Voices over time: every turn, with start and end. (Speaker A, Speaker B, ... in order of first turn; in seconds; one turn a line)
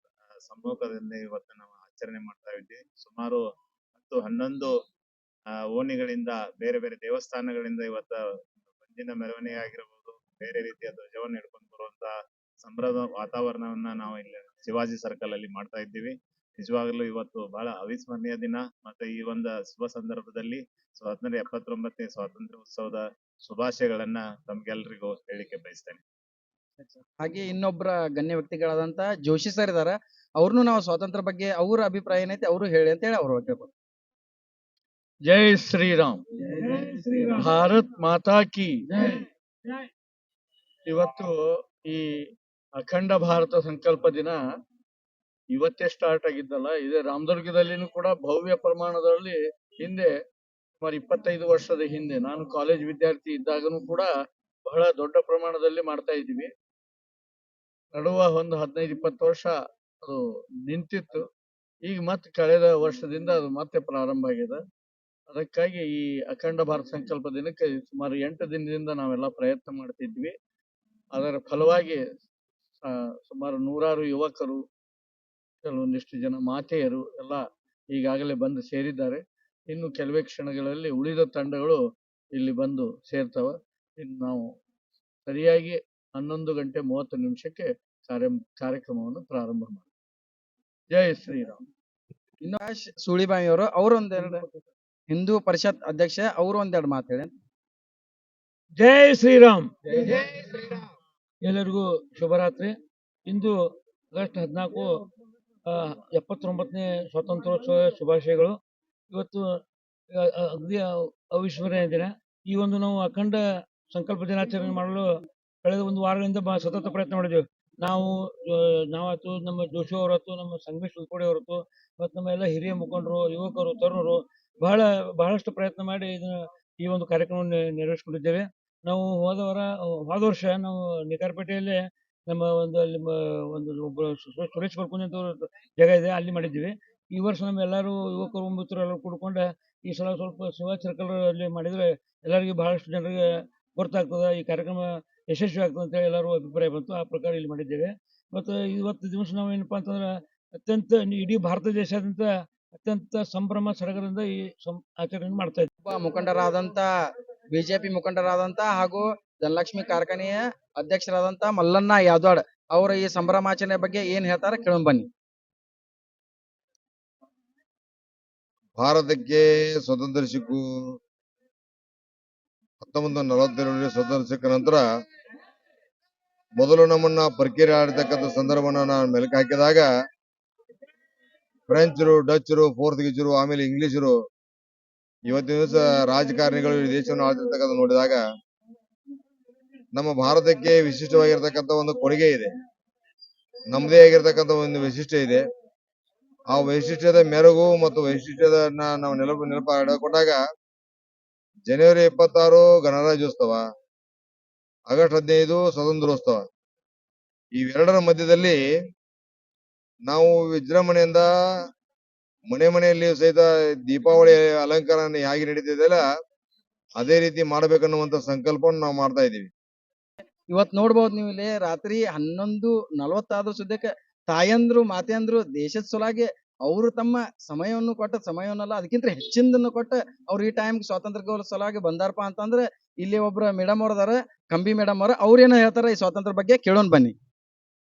Speaker A: 0.5-3.4
Speaker A: 4.0-4.7
Speaker A: 5.7-8.2
Speaker A: 8.8-12.1
Speaker A: 12.6-26.0
Speaker B: 26.8-33.7
Speaker C: 35.2-36.8
Speaker D: 36.7-37.5
Speaker C: 37.4-39.2
Speaker C: 40.9-44.4
Speaker C: 45.5-50.1
Speaker C: 50.8-54.1
Speaker C: 54.6-56.5
Speaker C: 57.9-61.2
Speaker C: 61.8-64.6
Speaker C: 65.3-70.3
Speaker C: 71.1-72.0
Speaker C: 72.8-74.6
Speaker C: 75.6-81.8
Speaker C: 82.3-84.5
Speaker C: 85.2-89.9
Speaker C: 90.9-91.6
Speaker B: 92.4-94.4
Speaker B: 95.1-97.3
Speaker D: 98.8-100.8
Speaker D: 101.4-103.6
Speaker D: 104.1-104.9
Speaker D: 105.7-108.6
Speaker D: 109.1-115.1
Speaker D: 115.6-155.7
Speaker B: 155.8-156.9
Speaker B: 157.5-165.1
Speaker E: 168.8-170.6
Speaker E: 172.8-174.8
Speaker E: 176.6-179.9
Speaker E: 181.7-184.1
Speaker E: 185.3-188.2
Speaker E: 189.9-192.5
Speaker E: 193.7-195.4
Speaker E: 196.5-200.4
Speaker E: 201.7-203.6
Speaker E: 204.9-206.4
Speaker E: 207.6-208.6
Speaker E: 210.1-211.2
Speaker E: 212.5-216.0
Speaker E: 217.0-219.5
Speaker B: 220.5-237.1